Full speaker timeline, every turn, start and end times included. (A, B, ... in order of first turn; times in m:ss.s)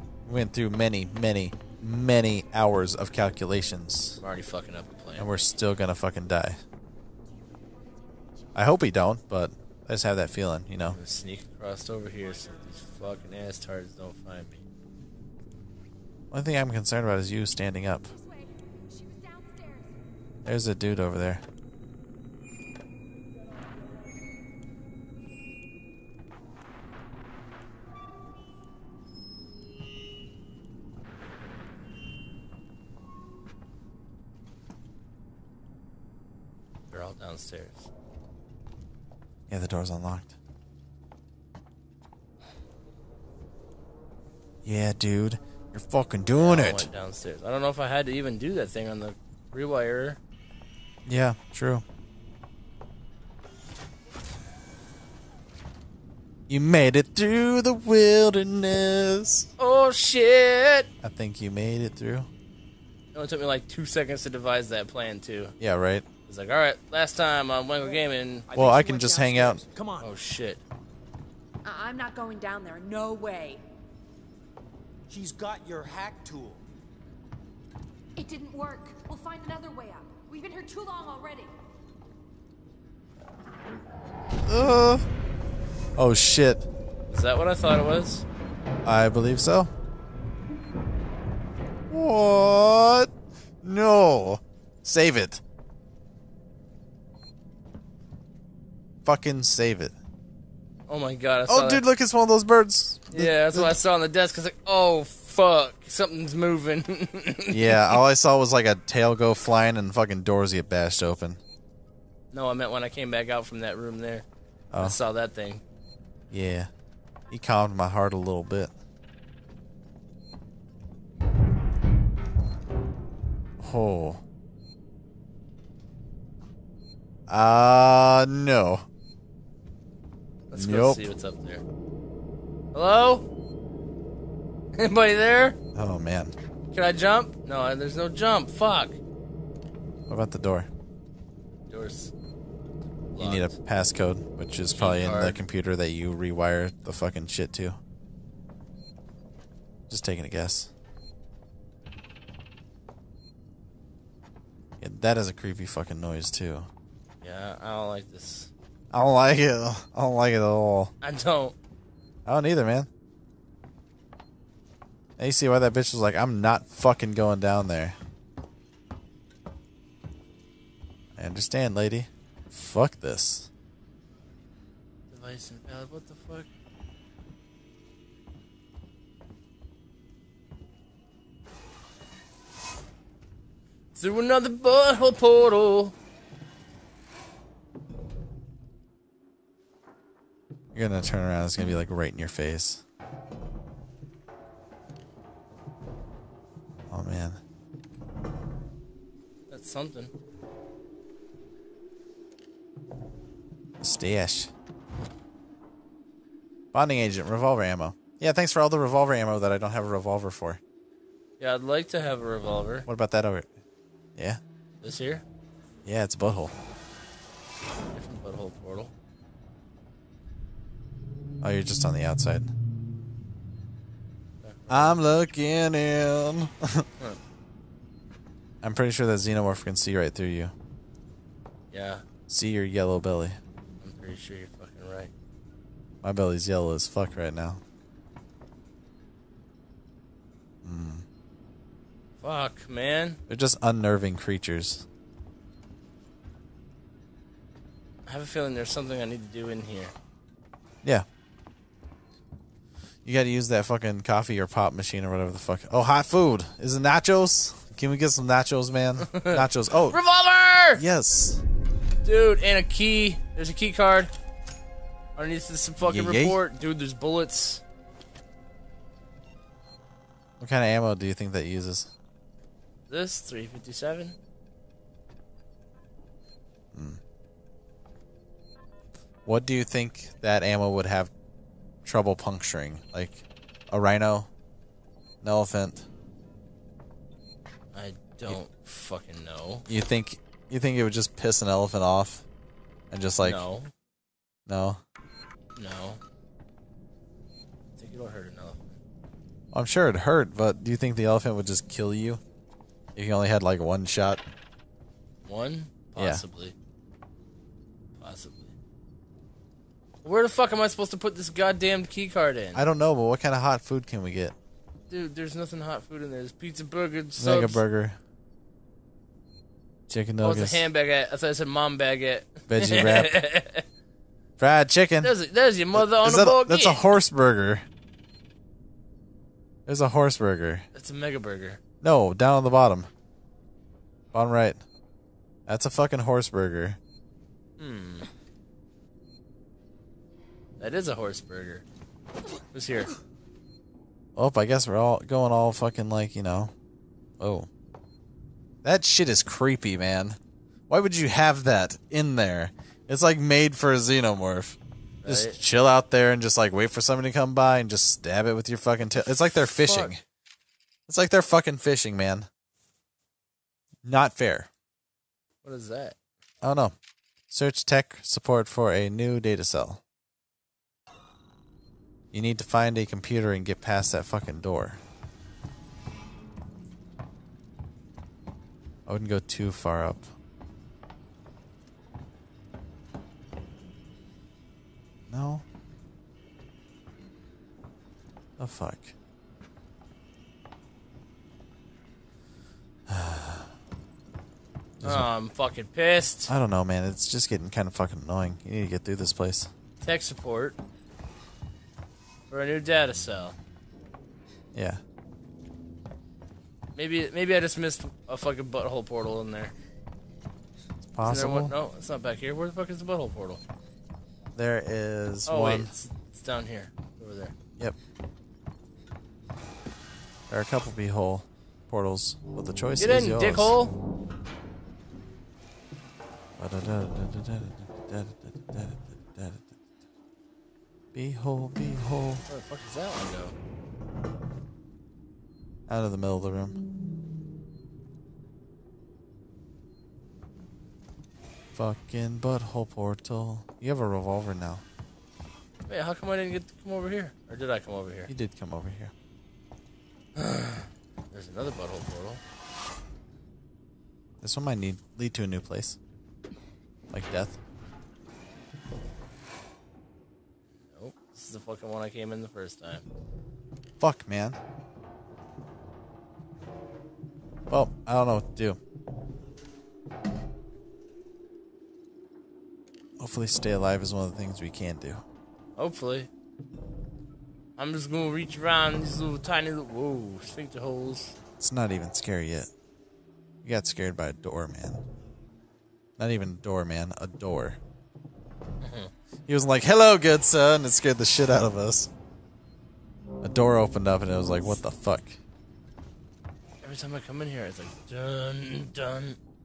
0:00.3-0:04.2 A
0:04.2-0:05.3 B
0:05.2-0:06.6 A
0:08.6-0:11.0 A
0:10.9-0:14.6 B
0:16.3-0:18.1 A
0:18.9-0:19.9 C
0:20.4-0:21.4 A
0:36.9-0:37.9 B
0:39.5-0:40.4 A
0:44.6-0:46.9 A
0:46.4-0:50.2 B
0:51.1-0:51.8 A
0:56.5-0:59.5 A
0:59.6-1:00.9 B
1:01.0-1:02.3 A
1:03.1-1:05.5 B
1:05.6-1:06.0 A
1:06.3-1:08.5 B
1:08.5-1:10.1 D
1:08.6-1:09.6 A
1:10.0-1:10.6 B
1:11.6-1:13.6 C
1:15.1-1:16.6 D
1:18.2-1:21.5 C
1:24.4-1:25.0 A
1:26.0-1:26.7 A
1:27.1-1:28.3 B
1:28.8-1:29.7 A
1:31.9-1:33.1 A
1:33.6-1:35.4 A
1:39.0-1:40.0 A
1:40.9-1:41.8 B
1:41.5-1:43.8 A
1:43.1-1:48.0 B
1:47.5-1:51.4 A
1:52.3-1:54.3 B
1:54.7-1:55.0 A
1:54.8-1:55.6 B
1:56.3-1:56.7 A
1:57.3-1:58.7 A
2:03.6-2:04.2 A
2:07.3-2:08.8 A
2:10.5-2:11.6 B
2:10.5-2:11.0 A
2:12.7-2:13.3 B
2:14.8-2:15.6 B
2:15.8-2:16.4 A
2:16.7-2:19.0 B
2:20.1-2:20.7 A
2:21.7-2:22.1 B
2:23.1-2:23.5 B
2:23.2-2:27.8 A
2:24.7-2:25.4 B
2:29.9-2:30.7 A
2:34.8-2:36.7 A
2:37.2-2:38.5 B
2:38.9-2:40.9 A
2:41.0-2:41.6 B
2:42.3-2:42.9 A
2:45.2-2:48.0 A
2:51.2-2:53.5 A
2:55.1-2:56.5 B
3:03.9-3:06.0 B
3:10.7-3:12.8 A
3:16.9-3:17.4 A
3:19.5-3:20.1 B
3:23.8-3:24.5 A
3:26.7-3:30.6 A
3:31.4-3:32.9 B
3:32.9-3:33.5 A
3:34.8-3:35.2 B
3:35.8-3:36.6 A
3:37.9-3:38.9 B
3:41.4-3:42.5 A
3:44.4-3:45.0 B
3:44.7-3:46.9 A
3:48.6-3:50.5 A
3:51.7-3:52.0 B
3:52.3-3:53.4 A
3:53.8-3:55.1 B
3:56.0-3:57.6 A
4:00.6-4:01.0 A
4:02.2-4:03.2 B
4:03.3-4:04.9 A
4:08.1-4:09.9 B
4:13.0-4:20.0 A
4:19.1-4:20.8 B
4:20.8-4:21.4 A
4:22.0-4:24.1 B
4:25.2-4:27.6 B
4:25.8-4:26.4 A
4:30.4-4:31.9 A
4:32.9-4:34.2 B
4:36.7-4:37.0 A
4:39.3-4:41.1 A
4:41.8-4:44.3 A
4:45.2-4:45.9 A
4:47.7-4:49.7 B
4:49.7-4:52.2 A
4:52.9-4:53.4 A
4:53.2-4:53.7 B
4:54.5-4:54.8 A
4:55.6-4:56.0 B
4:57.8-4:58.8 B
4:59.5-5:02.2 A
5:03.0-5:04.2 A
5:05.3-5:06.6 B
5:06.0-5:06.2 A
5:08.0-5:08.6 B
5:10.0-5:12.6 B
5:12.6-5:14.4 A
5:14.9-5:17.6 B
5:17.2-5:18.0 A
5:19.9-5:20.7 A
5:20.2-5:23.6 B
5:22.5-5:23.2 A
5:24.4-5:25.1 A
5:25.0-5:26.8 B
5:25.7-5:27.6 A
5:29.7-5:30.7 A
5:30.7-5:31.6 B
5:31.8-5:32.9 A
5:34.1-5:34.6 A
5:35.5-5:36.8 A
5:37.6-5:38.1 B
5:40.6-5:41.6 B
5:42.5-5:42.9 B
5:44.2-5:46.5 A
5:47.2-5:47.5 A
5:48.6-5:50.2 A
5:50.7-6:00.0 A
5:55.0-5:55.4 B
5:59.4-6:00.0 B
6:00.9-6:02.3 A
6:03.8-6:04.5 A
6:05.4-6:06.0 B
6:06.4-6:06.7 A
6:07.3-6:09.8 A
6:12.1-6:14.8 A
6:18.9-6:20.1 A
6:25.1-6:25.4 A
6:28.4-6:29.0 A
6:32.9-6:33.5 A
6:34.8-6:35.1 A
6:34.8-6:36.3 B
6:36.3-6:39.5 A
6:39.8-6:40.6 B
6:42.3-6:43.4 B
6:44.5-6:44.8 A
6:46.8-6:49.5 B
6:50.8-6:51.6 A
6:51.0-6:53.4 B
6:54.4-6:55.7 A
6:55.3-6:57.3 B
7:00.3-7:03.6 A
7:02.8-7:03.7 B
7:06.4-7:09.5 A
7:10.9-7:12.2 A
7:12.3-7:13.4 B
7:15.7-7:16.6 A
7:21.5-7:24.6 A
7:25.7-7:28.1 B
7:28.1-7:28.9 A
7:30.2-7:32.2 B
7:34.2-7:35.8 A
7:36.9-7:37.4 A
7:40.7-7:42.8 B
7:43.8-7:44.4 A
7:47.5-7:48.6 A
7:53.0-7:55.0 A
7:55.6-7:56.1 B
7:57.6-8:01.2 B
8:01.4-8:02.5 A
8:03.4-8:04.8 A
8:06.0-8:07.6 A
8:08.6-8:08.9 B
8:09.3-8:11.9 A
8:13.2-8:15.2 A
8:16.6-8:19.2 B